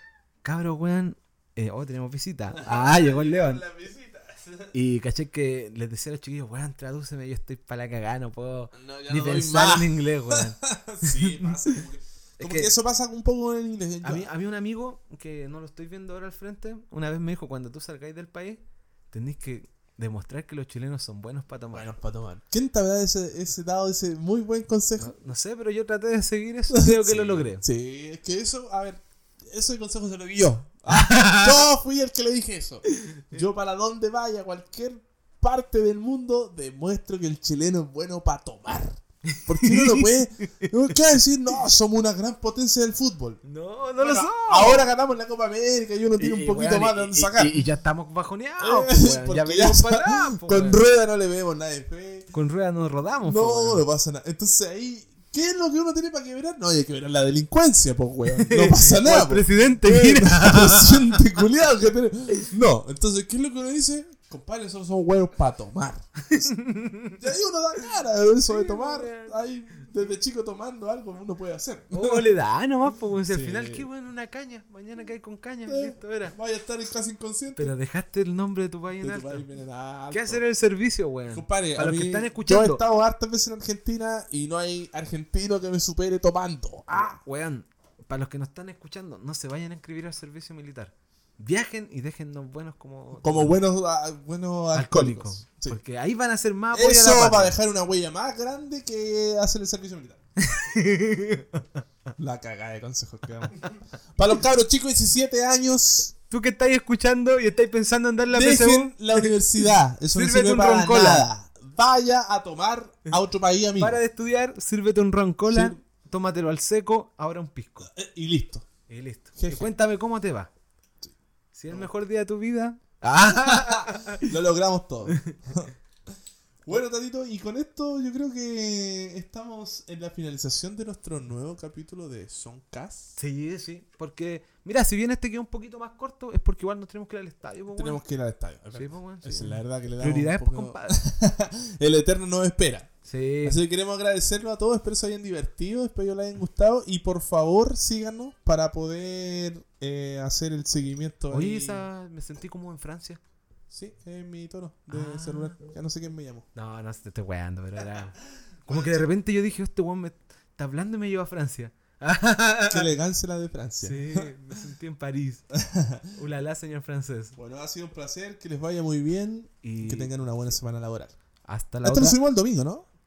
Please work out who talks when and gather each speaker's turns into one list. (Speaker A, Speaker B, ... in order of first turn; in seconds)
Speaker A: 0.4-3.6, 4.7-11.8, 12.4-12.7, 14.0-21.9, 25.0-27.6, 30.9-31.6, 32.9-33.4, 39.3-40.7, 43.4-44.9, 46.2-50.8, 52.3-53.8, 58.3-61.3, 66.3-67.2, 68.5-69.4, 71.9-76.3, 77.5-79.5, 80.1-82.8, 86.9-93.6, 94.7-97.6, 100.4-101.8, 106.3-111.3, 113.8-117.9, 118.9-120.5, 121.5-124.3, 125.1-125.4, 133.2-138.0, 138.7-141.0, 143.0-143.6, 151.3-153.2, 154.9-155.5, 156.5-162.9, 163.8-165.4, 166.1-167.4, 169.6-170.2, 171.4-172.2
Speaker B: 2.5-4.7, 8.7-14.3, 21.7-25.1, 26.7-43.4, 44.0-47.6, 48.6-52.3, 53.2-66.5, 67.2-72.3, 73.3-73.9, 75.7-77.7, 79.0-80.4, 81.3-87.2, 93.2-95.8, 96.7-100.2, 102.2-103.6, 104.1-106.1, 108.3-114.0, 115.5-115.8, 117.9-118.7, 119.4-119.7, 123.2-125.7, 126.6-133.2, 137.7-142.9, 143.4-151.8, 153.7-156.5, 158.7-159.0, 162.7-164.3, 165.5-166.1, 167.3-171.1, 171.8-172.9